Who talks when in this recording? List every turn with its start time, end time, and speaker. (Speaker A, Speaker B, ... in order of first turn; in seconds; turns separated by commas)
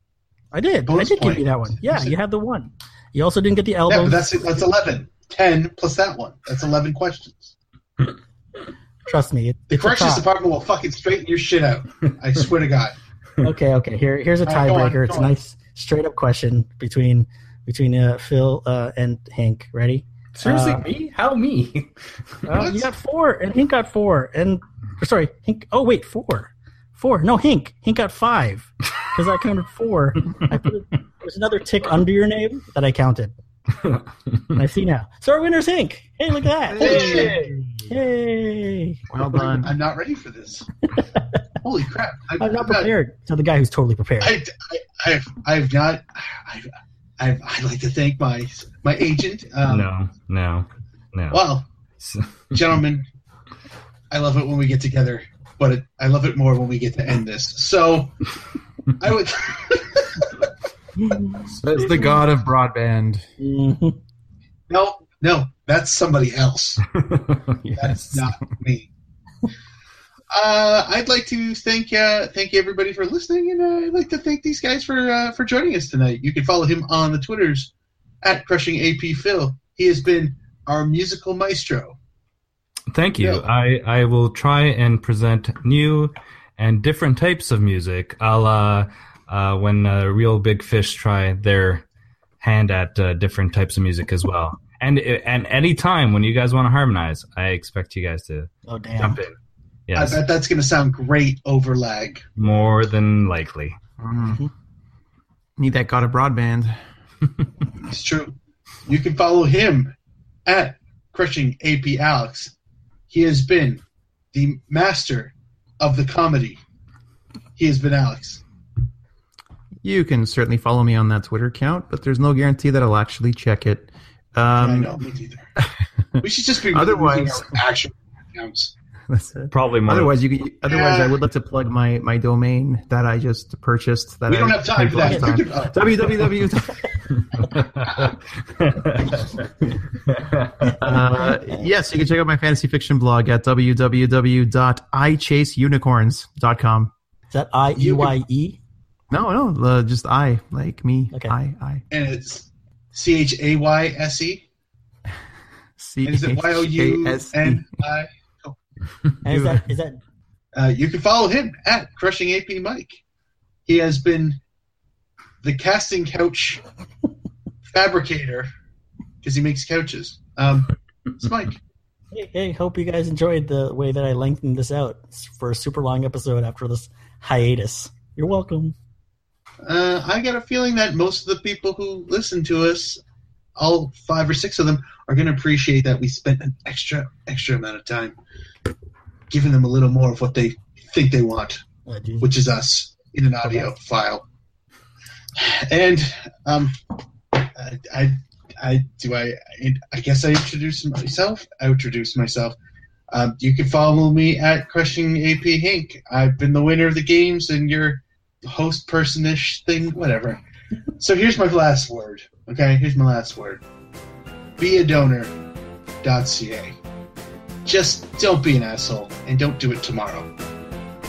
Speaker A: 0.5-4.2, Speaker B: 0.9-2.1, Speaker B: 3.9-7.5, Speaker A: 9.1-10.3, Speaker B: 9.7-12.9, Speaker A: 13.4-20.8, Speaker B: 14.4-15.3, Speaker C: 20.3-21.9, Speaker A: 22.4-33.3, Speaker B: 22.6-22.9, Speaker A: 34.5-39.0, Speaker D: 36.7-37.5, Speaker B: 36.8-37.3, Speaker C: 36.9-37.5, Speaker D: 39.1-39.7, Speaker B: 39.3-40.8, Speaker B: 41.6-42.9, Speaker A: 42.4-44.4, Speaker B: 44.2-49.9, Speaker C: 49.6-51.4, Speaker B: 51.3-51.6, Speaker C: 52.0-52.5, Speaker B: 52.5-53.1, Speaker B: 54.1-58.3, Speaker B: 59.0-60.5, Speaker A: 61.0-61.5, Speaker D: 61.6-63.2, Speaker A: 63.4-64.0, Speaker B: 64.7-66.9, Speaker C: 67.1-67.5, Speaker D: 67.6-68.3, Speaker B: 67.8-68.9, Speaker B: 70.3-77.7, Speaker B: 78.2-82.0, Speaker C: 82.9-91.8, Speaker B: 83.2-83.5, Speaker C: 92.4-99.3, Speaker A: 98.7-99.2, Speaker C: 99.9-100.2, Speaker B: 99.9-102.2, Speaker C: 102.4-103.8, Speaker D: 104.0-104.4, Speaker D: 105.6-106.8, Speaker B: 107.8-109.9, Speaker B: 110.5-112.5, Speaker B: 113.1-116.6, Speaker B: 117.6-118.4, Speaker D: 119.8-125.0, Speaker B: 124.6-125.5, Speaker D: 125.6-127.6, Speaker B: 126.2-128.7, Speaker D: 129.1-136.9, Speaker C: 129.5-130.1, Speaker B: 130.7-131.2, Speaker B: 134.3-135.9, Speaker A: 135.0-135.3, Speaker C: 137.4-139.3, Speaker C: 140.1-140.9, Speaker A: 140.7-141.6, Speaker D: 140.7-146.9, Speaker A: 147.3-148.6, Speaker B: 147.8-148.2, Speaker D: 149.1-151.8, Speaker B: 151.9-154.4, Speaker D: 155.8-157.7, Speaker B: 156.1-158.6, Speaker A: 159.2-160.0, Speaker D: 159.3-159.6, Speaker B: 160.6-163.0, Speaker B: 163.7-164.4, Speaker B: 165.4-166.6, Speaker B: 167.6-168.5, Speaker B: 169.2-171.6, Speaker A: 172.1-178.8, Speaker B: 179.6-183.0, Speaker B: 183.6-188.2, Speaker B: 189.3-191.6, Speaker A: 191.9-192.3, Speaker B: 192.2-194.2, Speaker A: 193.4-193.7, Speaker B: 195.3-196.8, Speaker B: 197.3-202.6, Speaker B: 203.1-210.4, Speaker B: 211.0-213.6, Speaker B: 214.6-215.3, Speaker B: 216.0-216.8, Speaker B: 217.6-220.3